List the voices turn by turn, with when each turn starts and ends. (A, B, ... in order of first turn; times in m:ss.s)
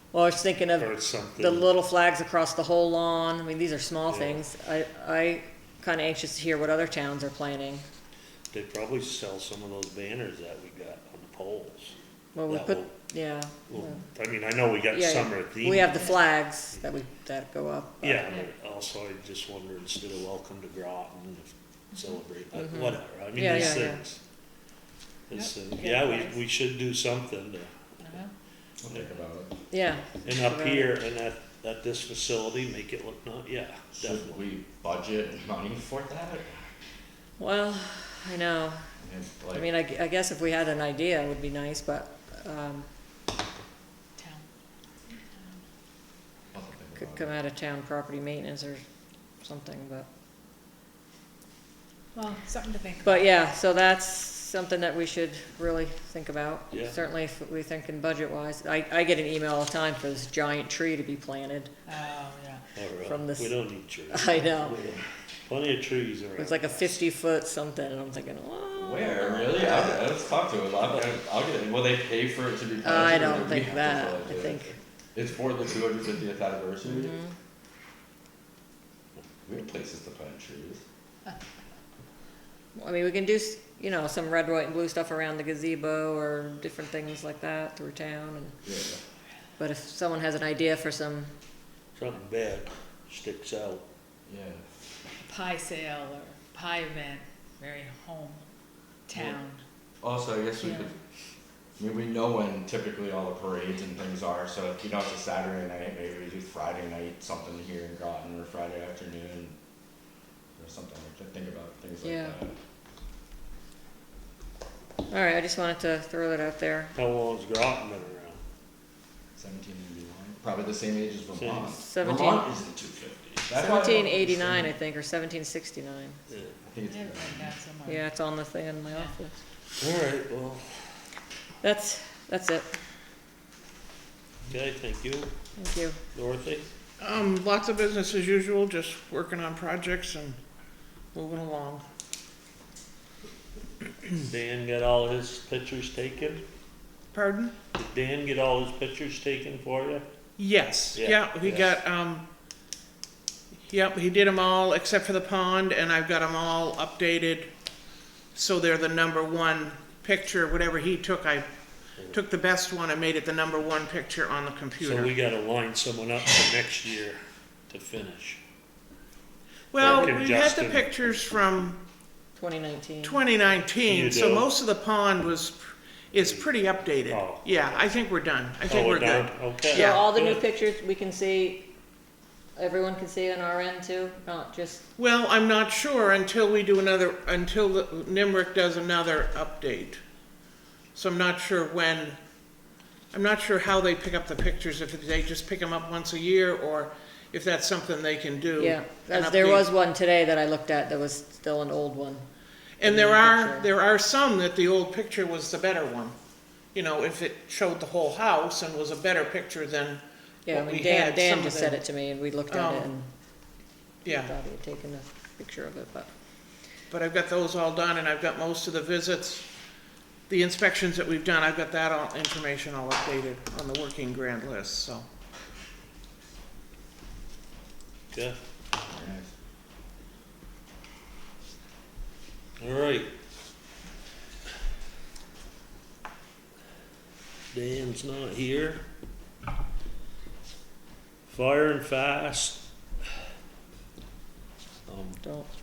0:00.1-0:07.8 A
0:00.8-0:01.7 B
0:04.1-0:04.4 B
0:08.5-0:12.0 B
0:12.3-0:14.0 A
0:12.5-0:13.0 B
0:13.7-0:16.1 B
0:14.9-0:18.3 A
0:18.0-0:24.2 B
0:22.5-0:24.0 A
0:25.3-0:28.2 B
0:25.3-0:26.4 C
0:28.0-0:28.3 C
0:28.8-0:29.5 D
0:29.7-0:30.9 A
0:30.2-0:34.4 B
0:34.0-0:36.6 D
0:37.4-0:38.8 A
0:39.0-0:39.7 D
0:39.5-0:42.9 A
0:44.2-0:44.5 C
0:45.1-0:45.6 C
0:46.5-0:47.4 D
0:47.0-0:48.8 A
0:49.4-0:50.1 A
0:52.1-0:53.3 C
0:53.0-1:01.7 A
0:56.7-0:57.0 B
1:01.9-1:02.6 C
1:02.8-1:07.0 B
1:03.0-1:03.5 A
1:04.1-1:04.8 A
1:06.4-1:10.0 A
1:08.8-1:17.2 D
1:12.8-1:14.8 A
1:16.9-1:17.3 A
1:19.4-1:20.8 D
1:22.8-1:28.6 A
1:28.6-1:29.0 D
1:29.6-1:31.3 A
1:32.0-1:33.8 B
1:34.3-1:34.6 D
1:35.2-1:38.4 C
1:39.1-1:39.6 C
1:40.0-1:41.0 D
1:41.8-1:49.6 D
1:50.6-1:52.5 D
1:52.0-1:52.4 A
1:55.1-1:56.9 A
1:57.0-1:58.4 B
1:59.4-2:04.7 D
2:01.4-2:01.8 B
2:01.8-2:02.5 A
2:03.5-2:06.2 A
2:06.3-2:06.6 B
2:06.7-2:07.6 D
2:06.9-2:08.0 C
2:07.9-2:09.4 A
2:08.9-2:09.1 C
2:09.8-2:10.8 B
2:11.6-2:12.7 A
2:14.5-2:15.3 B
2:15.6-2:16.0 A
2:16.1-2:16.7 B
2:17.0-2:20.4 E
2:21.1-2:21.8 E
2:24.2-2:26.4 B
2:27.1-2:27.5 E
2:27.7-2:30.0 B
2:30.4-2:32.2 E
2:30.9-2:31.7 B
2:33.7-2:37.5 E
2:38.3-2:41.5 E
2:42.1-2:45.1 E
2:44.8-2:48.4 B
2:49.7-2:51.8 E
2:49.8-2:50.9 B
2:49.8-2:50.1 A
2:52.4-2:53.2 A
2:53.0-3:00.1 E
2:53.8-2:54.5 B
2:56.2-2:56.5 B
2:57.0-2:57.8 B
2:58.6-3:00.4 B
2:59.7-3:01.7 A
3:02.6-3:04.8 A
3:05.0-3:10.0 E
3:11.0-3:12.2 E
3:13.1-3:19.7 E
3:18.6-3:22.3 A
3:22.8-3:26.1 E
3:22.8-3:23.7 A
3:26.7-3:31.9 E
3:30.5-3:33.1 A
3:32.5-3:32.9 E
3:34.0-3:34.3 E
3:34.0-3:36.1 A
3:36.9-3:39.5 E
3:40.3-3:45.0 E
3:48.1-3:48.4 B
3:48.9-3:49.3 D
3:52.6-3:53.1 B
3:57.5-3:58.8 B
4:01.3-4:02.6 B
4:04.9-4:05.2 B
4:05.2-4:05.5 A